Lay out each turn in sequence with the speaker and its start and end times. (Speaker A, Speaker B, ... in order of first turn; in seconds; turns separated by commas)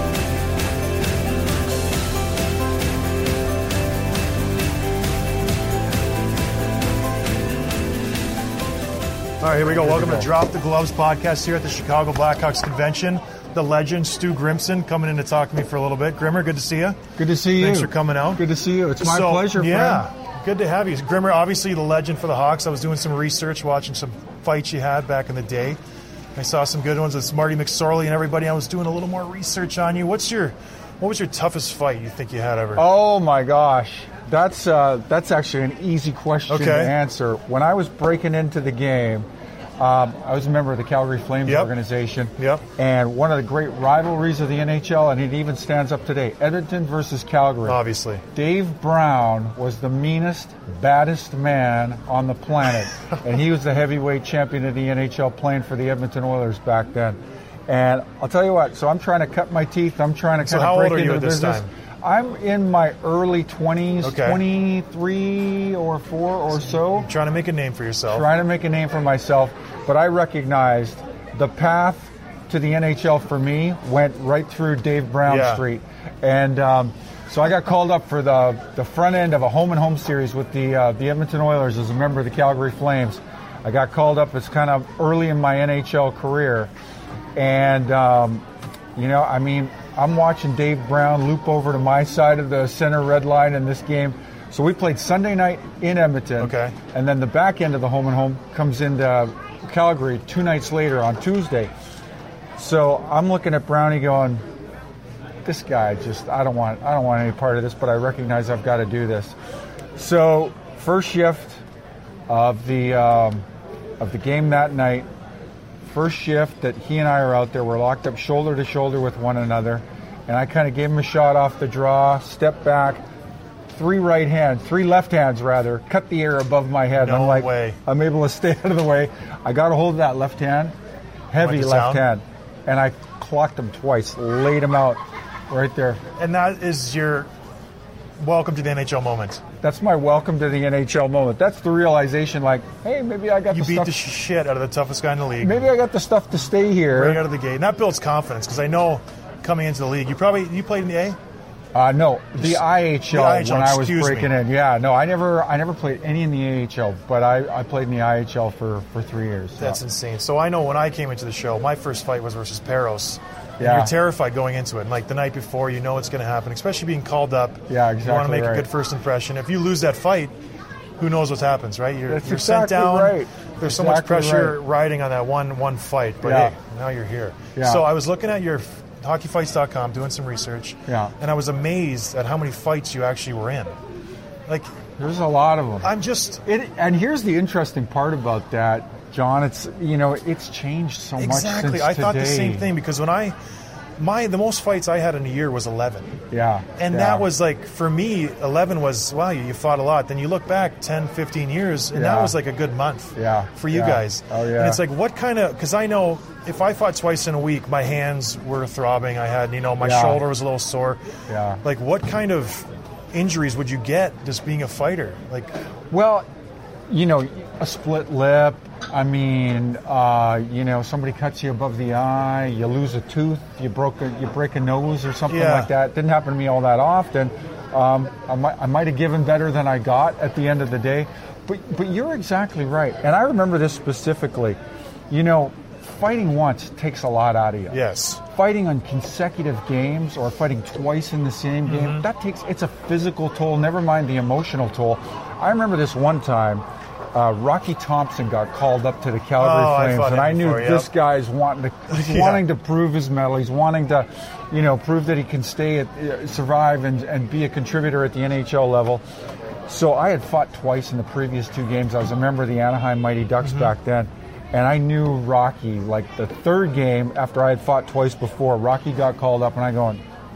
Speaker A: 9.4-18.4, Speaker B: 9.8-10.3, Speaker B: 17.2-20.1, Speaker A: 19.0-25.8, Speaker A: 26.4-32.8, Speaker B: 32.8-39.3, Speaker A: 36.5-36.9, Speaker B: 39.8-47.8, Speaker A: 41.5-41.7, Speaker A: 42.4-42.6, Speaker A: 47.6-48.2, Speaker B: 48.3-67.1, Speaker A: 60.4-61.7, Speaker A: 64.0-64.4, Speaker A: 66.8-68.3, Speaker B: 68.1-86.7, Speaker A: 75.2-75.6, Speaker B: 87.3-101.7, Speaker A: 96.4-96.8, Speaker B: 102.6-104.4, Speaker B: 105.5-109.4, Speaker B: 110.0-111.6, Speaker B: 112.3-113.5, Speaker B: 114.0-115.1, Speaker B: 115.9-123.0, Speaker B: 123.7-130.8, Speaker A: 127.0-127.8, Speaker B: 131.3-136.0, Speaker A: 131.4-132.1, Speaker A: 136.2-137.3, Speaker A: 138.2-139.4, Speaker B: 139.6-144.0, Speaker A: 143.5-145.7, Speaker B: 145.4-147.2, Speaker A: 146.9-151.2, Speaker B: 151.7-159.8, Speaker A: 152.4-154.3, Speaker A: 159.6-170.3, Speaker B: 163.6-163.9, Speaker B: 167.7-168.7, Speaker A: 171.0-183.7, Speaker B: 172.1-174.6, Speaker B: 176.2-176.5, Speaker B: 177.6-177.8, Speaker B: 180.9-181.1, Speaker B: 185.0-185.9, Speaker A: 185.8-186.4, Speaker B: 186.4-192.7, Speaker A: 191.2-193.4, Speaker A: 194.0-196.1, Speaker B: 196.3-197.3, Speaker A: 196.8-211.0, Speaker B: 201.9-202.4, Speaker B: 203.2-204.8, Speaker B: 209.8-210.2, Speaker B: 211.3-211.6, Speaker A: 211.6-215.5, Speaker B: 215.9-216.3, Speaker B: 216.9-234.6, Speaker A: 225.3-225.7, Speaker B: 235.1-259.0, Speaker A: 237.7-238.2, Speaker A: 241.7-242.1, Speaker A: 249.4-250.9, Speaker A: 251.9-252.4, Speaker B: 259.7-270.0, Speaker A: 263.4-263.7